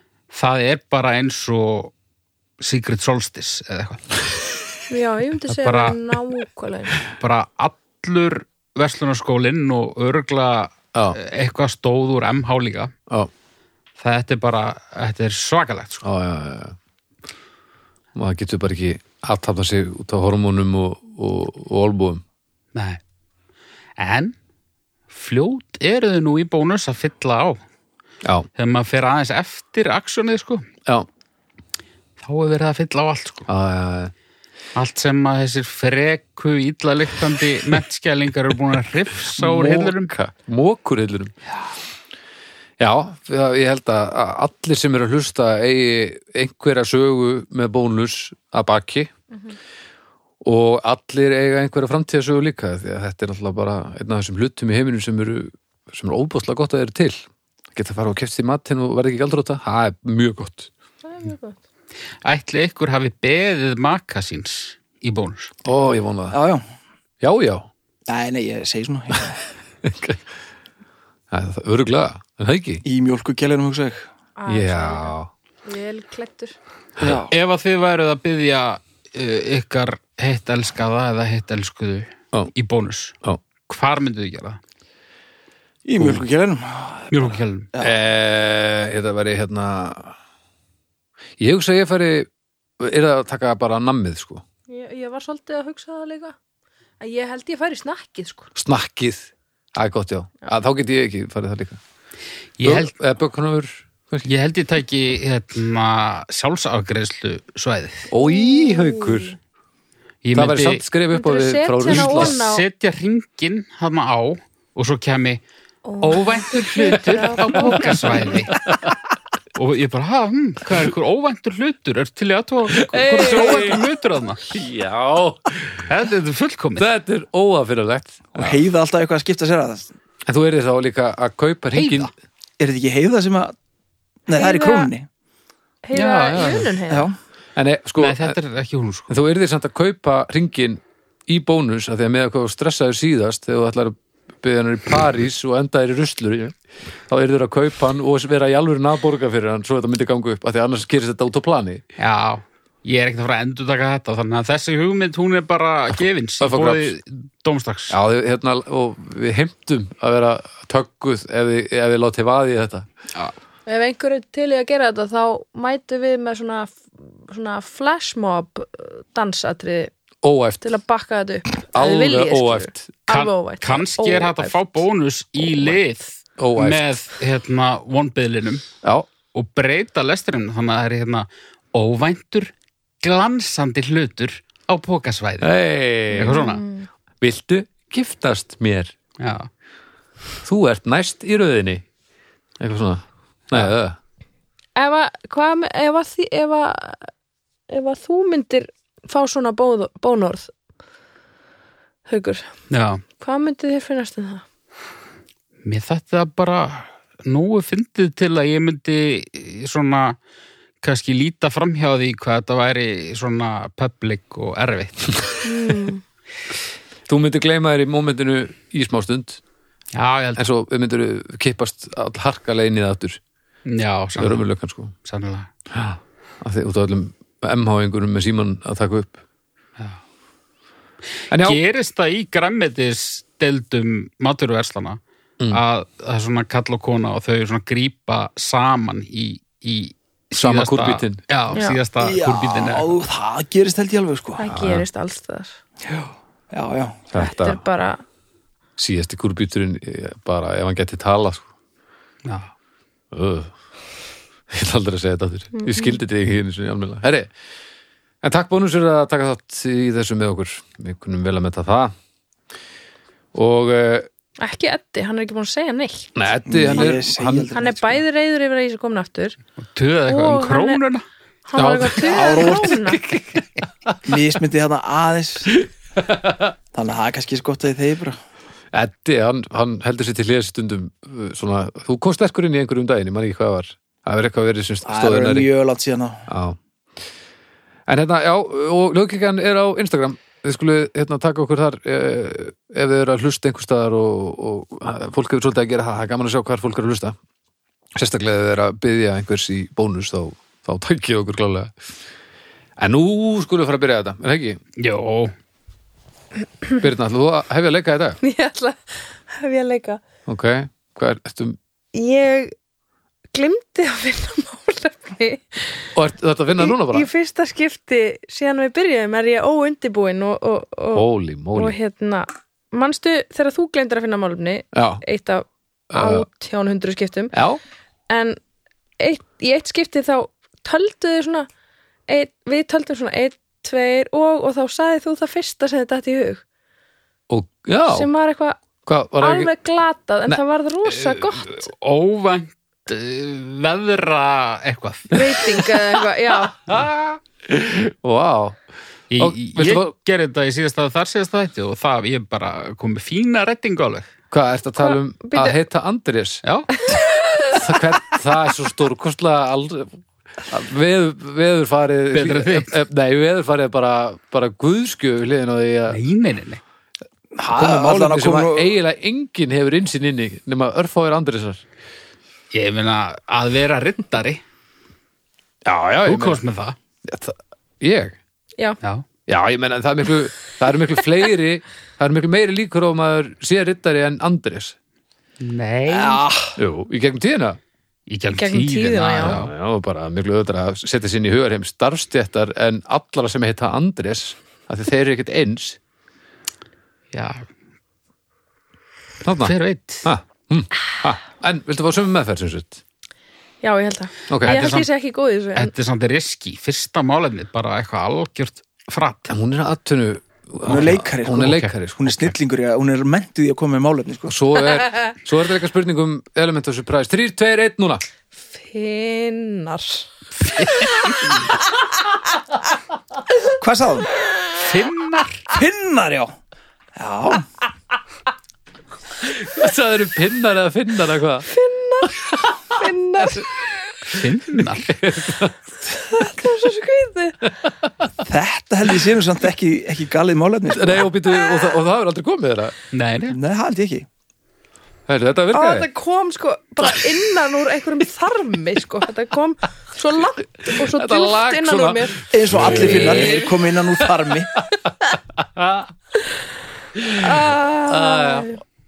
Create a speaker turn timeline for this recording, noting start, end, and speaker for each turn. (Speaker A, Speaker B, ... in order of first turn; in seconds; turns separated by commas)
Speaker A: 0.3-1.9, Speaker A: 2.6-4.0, Speaker B: 4.9-7.0, Speaker A: 5.5-6.0, Speaker A: 7.1-12.9, Speaker A: 14.0-16.0, Speaker C: 16.0-16.8, Speaker C: 18.1-22.2, Speaker A: 22.7-23.0, Speaker A: 24.0-24.3, Speaker A: 25.1-27.6, Speaker C: 28.2-28.5, Speaker A: 28.6-30.7, Speaker A: 32.2-33.5, Speaker C: 33.5-34.1, Speaker A: 34.7-40.1, Speaker C: 39.4-41.3, Speaker C: 42.8-49.1, Speaker C: 50.4-57.2, Speaker C: 57.7-60.7, Speaker B: 61.0-61.6, Speaker A: 62.2-65.5, Speaker C: 65.6-66.4, Speaker D: 66.3-66.6, Speaker C: 67.2-67.7, Speaker D: 68.1-69.4, Speaker C: 69.8-70.2, Speaker C: 71.3-72.8, Speaker D: 72.8-74.1, Speaker B: 74.3-75.1, Speaker C: 74.5-75.3, Speaker B: 75.6-76.5, Speaker C: 77.0-77.2, Speaker D: 77.0-77.3, Speaker A: 77.3-83.2, Speaker A: 83.7-84.6, Speaker D: 85.8-87.9, Speaker C: 86.0-86.2, Speaker A: 87.1-87.7, Speaker C: 87.8-90.2, Speaker C: 91.4-92.3, Speaker C: 92.8-94.4, Speaker B: 94.7-96.3, Speaker B: 97.0-98.5, Speaker C: 98.5-101.8, Speaker A: 102.6-102.9, Speaker C: 102.6-104.3, Speaker A: 104.2-108.1, Speaker C: 108.1-109.4, Speaker B: 108.2-109.3, Speaker A: 110.2-110.8, Speaker C: 110.3-112.4, Speaker B: 111.1-112.6, Speaker A: 111.9-115.4, Speaker B: 115.8-118.4, Speaker A: 116.0-118.5, Speaker C: 117.5-119.0, Speaker A: 119.5-124.5, Speaker C: 122.7-123.8, Speaker B: 122.9-123.8, Speaker C: 124.5-125.8, Speaker A: 125.8-126.9, Speaker C: 126.8-128.6, Speaker D: 128.3-129.9, Speaker C: 130.3-132.1, Speaker A: 131.7-132.1, Speaker D: 132.6-133.5, Speaker D: 134.3-135.1, Speaker B: 134.3-134.9, Speaker B: 135.8-137.1, Speaker A: 135.9-136.7, Speaker D: 136.9-137.1, Speaker C: 137.6-138.4, Speaker A: 138.0-139.1, Speaker C: 139.1-146.6, Speaker C: 147.1-151.8, Speaker A: 152.0-157.9, Speaker C: 156.4-156.9, Speaker C: 157.9-162.9, Speaker B: 163.7-169.9, Speaker C: 170.2-170.7, Speaker B: 170.6-174.6, Speaker C: 171.7-172.9, Speaker A: 173.1-178.6, Speaker C: 176.4-176.8, Speaker C: 178.8-179.1, Speaker A: 179.3-185.5, Speaker C: 185.4-186.5, Speaker B: 186.1-186.9, Speaker A: 186.2-186.6, Speaker C: 187.2-188.9, Speaker A: 189.2-189.5, Speaker C: 190.4-191.8, Speaker C: 192.6-194.0, Speaker B: 194.8-197.1, Speaker B: 197.7-200.5, Speaker B: 202.1-202.4, Speaker A: 202.7-203.0, Speaker B: 203.2-204.4, Speaker A: 205.6-210.2, Speaker A: 210.8-215.3, Speaker B: 215.4-216.0, Speaker C: 217.1-219.4, Speaker A: 219.9-220.4, Speaker C: 220.3-223.2, Speaker A: 223.7-224.4, Speaker C: 224.2-224.9, Speaker A: 225.0-225.5, Speaker C: 225.7-229.2, Speaker A: 231.3-242.9, Speaker C: 231.3-231.6, Speaker C: 240.3-241.2, Speaker B: 241.5-241.8, Speaker D: 242.0-244.4, Speaker B: 244.4-245.5, Speaker C: 244.5-244.8, Speaker D: 245.8-247.1, Speaker C: 247.1-247.6, Speaker B: 247.1-248.0, Speaker C: 248.8-251.5, Speaker A: 252.2-252.5, Speaker C: 253.1-253.5, Speaker C: 254.5-257.3, Speaker B: 255.5-255.9, Speaker C: 258.2-261.9, Speaker C: 263.3-264.1, Speaker B: 264.4-266.1, Speaker C: 266.1-267.6, Speaker D: 266.4-267.9, Speaker B: 267.5-269.4, Speaker A: 269.7-271.0, Speaker B: 270.1-270.8, Speaker B: 271.5-273.0, Speaker C: 271.5-274.1, Speaker D: 272.0-272.7, Speaker D: 274.0-275.5, Speaker C: 275.5-276.5, Speaker D: 276.7-278.2, Speaker C: 278.7-285.5, Speaker D: 284.9-286.3, Speaker C: 286.3-286.6, Speaker C: 287.9-297.1, Speaker C: 297.9-301.7, Speaker C: 302.8-304.6, Speaker A: 304.8-305.3, Speaker C: 306.8-308.2, Speaker B: 308.2-310.0, Speaker C: 310.2-311.6, Speaker B: 311.9-312.5, Speaker B: 313.3-315.9, Speaker C: 315.9-317.1, Speaker B: 316.6-327.3, Speaker C: 320.9-321.8, Speaker C: 324.7-325.0, Speaker C: 325.9-326.2, Speaker C: 327.3-327.6, Speaker B: 328.1-328.4, Speaker B: 329.0-331.5, Speaker B: 332.1-336.4, Speaker C: 337.3-338.1, Speaker B: 337.9-338.6, Speaker C: 338.8-339.5, Speaker B: 339.2-341.6, Speaker A: 341.0-345.2, Speaker B: 345.1-346.6, Speaker C: 346.7-348.6, Speaker A: 349.1-354.1, Speaker C: 349.2-349.9, Speaker C: 354.3-356.4, Speaker B: 354.8-355.6, Speaker A: 356.4-356.7, Speaker B: 356.8-357.7, Speaker C: 357.5-359.9, Speaker C: 360.5-366.0, Speaker A: 362.1-362.7, Speaker A: 365.9-366.6, Speaker D: 367.3-368.7, Speaker C: 367.5-371.6, Speaker A: 372.5-374.4, Speaker C: 375.6-376.4, Speaker A: 376.0-376.8, Speaker C: 377.0-378.2, Speaker C: 379.3-384.7, Speaker A: 385.4-386.2, Speaker D: 385.9-386.6, Speaker C: 386.6-387.6, Speaker A: 388.1-389.5, Speaker B: 388.4-389.4, Speaker C: 389.2-395.8, Speaker A: 397.1-397.5, Speaker C: 399.2-402.8, Speaker A: 399.4-400.1, Speaker B: 403.6-405.7, Speaker C: 404.3-404.7, Speaker A: 404.4-404.9, Speaker A: 405.5-409.3, Speaker C: 409.3-412.3, Speaker D: 410.7-414.4, Speaker A: 410.7-410.9, Speaker C: 414.3-418.0, Speaker B: 418.5-420.1, Speaker A: 420.4-421.5, Speaker D: 423.6-424.1, Speaker A: 424.5-425.4, Speaker D: 425.5-426.3, Speaker D: 426.9-427.5, Speaker C: 429.2-431.5, Speaker B: 431.5-433.5, Speaker C: 432.0-436.3, Speaker A: 434.1-434.9, Speaker B: 435.9-437.4, Speaker D: 438.2-441.1, Speaker C: 440.7-442.7, Speaker A: 442.9-443.4, Speaker D: 443.3-444.1, Speaker C: 445.1-445.9, Speaker B: 445.5-452.2, Speaker C: 450.6-454.1, Speaker D: 452.3-454.5, Speaker A: 452.6-453.3, Speaker C: 454.8-455.9, Speaker C: 456.9-458.5, Speaker B: 457.1-458.6